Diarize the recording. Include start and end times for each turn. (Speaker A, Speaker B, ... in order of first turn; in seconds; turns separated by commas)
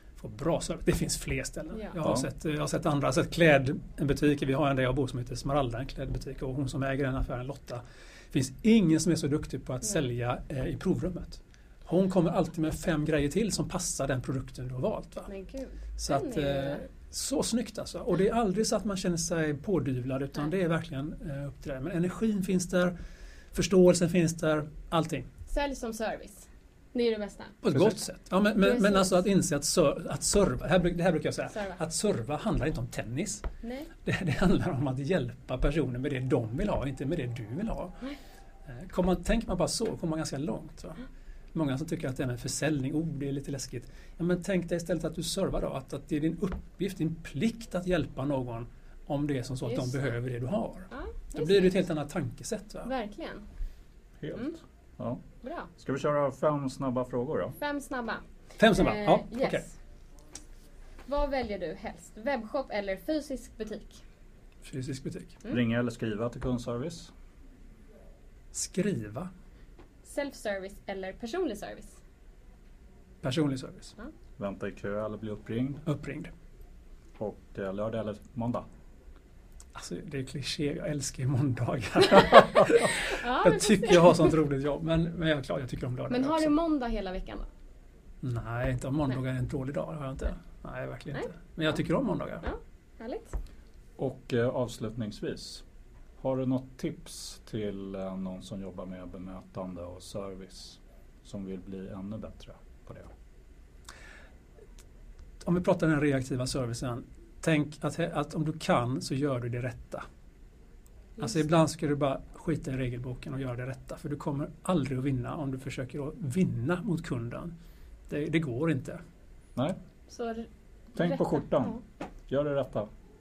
Speaker A: 0.2-15.3, Speaker B: 1.7-2.0, Speaker C: 2.0-2.3, Speaker B: 15.3-16.9, Speaker A: 16.0-22.9, Speaker A: 23.5-25.3, Speaker B: 25.5-27.9, Speaker A: 27.6-33.5, Speaker B: 28.6-29.2, Speaker B: 31.5-31.8, Speaker B: 33.6-33.9, Speaker A: 34.0-38.0, Speaker A: 38.7-52.9, Speaker B: 49.6-50.0, Speaker B: 50.9-51.8, Speaker B: 52.9-53.5, Speaker C: 54.2-55.2, Speaker B: 55.4-55.7, Speaker C: 55.8-57.6, Speaker B: 57.6-59.7, Speaker A: 58.6-59.6, Speaker B: 61.1-64.0, Speaker A: 64.6-65.4, Speaker C: 65.5-67.1, Speaker A: 68.5-69.3, Speaker B: 70.0-72.0, Speaker A: 73.2-74.0, Speaker C: 74.4-75.8, Speaker A: 75.8-76.3, Speaker C: 77.2-78.7, Speaker A: 79.7-86.5, Speaker B: 83.1-84.3, Speaker B: 86.1-87.5, Speaker A: 88.2-92.5, Speaker B: 92.4-93.3, Speaker C: 94.0-95.6, Speaker C: 96.2-103.1, Speaker A: 105.4-110.0, Speaker A: 111.2-117.5, Speaker A: 118.1-119.0, Speaker B: 120.1-121.8, Speaker C: 121.0-122.9